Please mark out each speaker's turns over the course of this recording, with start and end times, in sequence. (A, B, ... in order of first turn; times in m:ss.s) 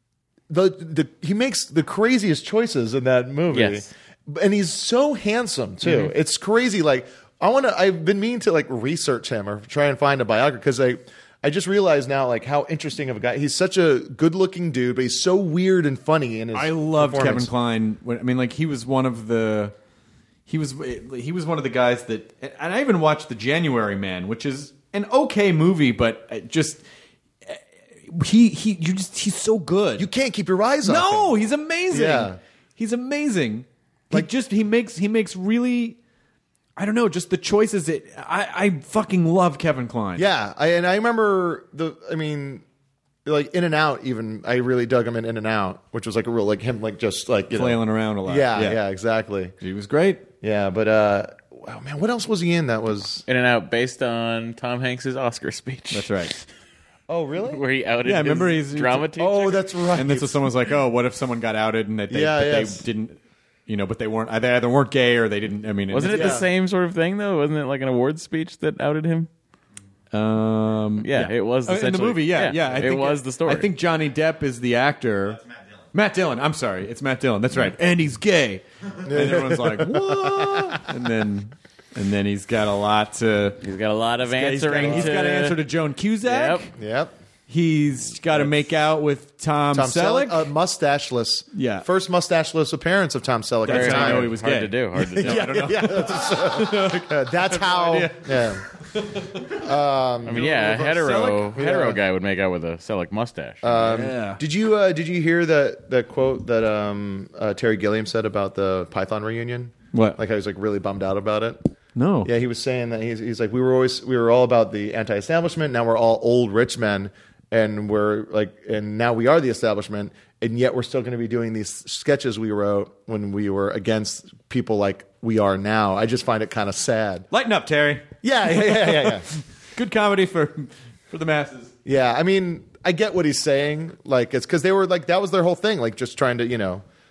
0:00.5-0:17.5 A
0:03.5-0:03.9 B
0:16.5-0:19.7 C
0:20.5-0:26.8 C
0:27.4-0:30.1 C
0:30.0-0:31.4 A
0:30.8-0:36.0 C
0:31.9-0:32.4 A
0:36.8-0:40.3 C
0:40.2-0:42.6 A
0:43.2-0:49.6 A
0:47.5-0:48.8 C
0:49.6-0:50.2 C
0:50.4-0:53.2 A
0:53.3-0:56.4 B
0:55.9-0:56.3 C
0:57.1-0:57.6 A
0:57.5-0:59.6 B
0:58.0-0:59.1 C
0:59.2-1:00.5 A
1:00.0-1:03.2 C
1:02.1-1:02.8 A
1:03.7-1:06.4 C
1:05.9-1:09.3 B
1:06.0-1:06.4 A
1:10.1-1:15.4 C
1:11.0-1:13.7 B
1:15.9-1:23.6 C
1:19.0-1:20.9 A
1:23.6-1:25.6 B
1:24.2-1:26.7 C
1:24.8-1:25.1 A
1:26.2-1:26.6 B
1:26.8-1:27.1 A
1:27.5-1:30.5 C
1:29.7-1:34.4 A
1:31.5-1:31.9 C
1:33.6-1:39.6 C
1:33.7-1:35.6 B
1:35.2-1:38.6 A
1:39.5-1:40.5 A
1:40.2-1:43.6 B
1:40.3-1:41.6 C
1:41.6-1:42.0 A
1:43.6-1:51.6 A
1:43.8-1:44.4 C
1:49.9-1:50.2 C
1:52.0-1:52.3 C
1:52.2-2:07.3 A
2:07.3-2:11.7 C
2:08.2-2:09.3 A
2:11.8-2:16.8 A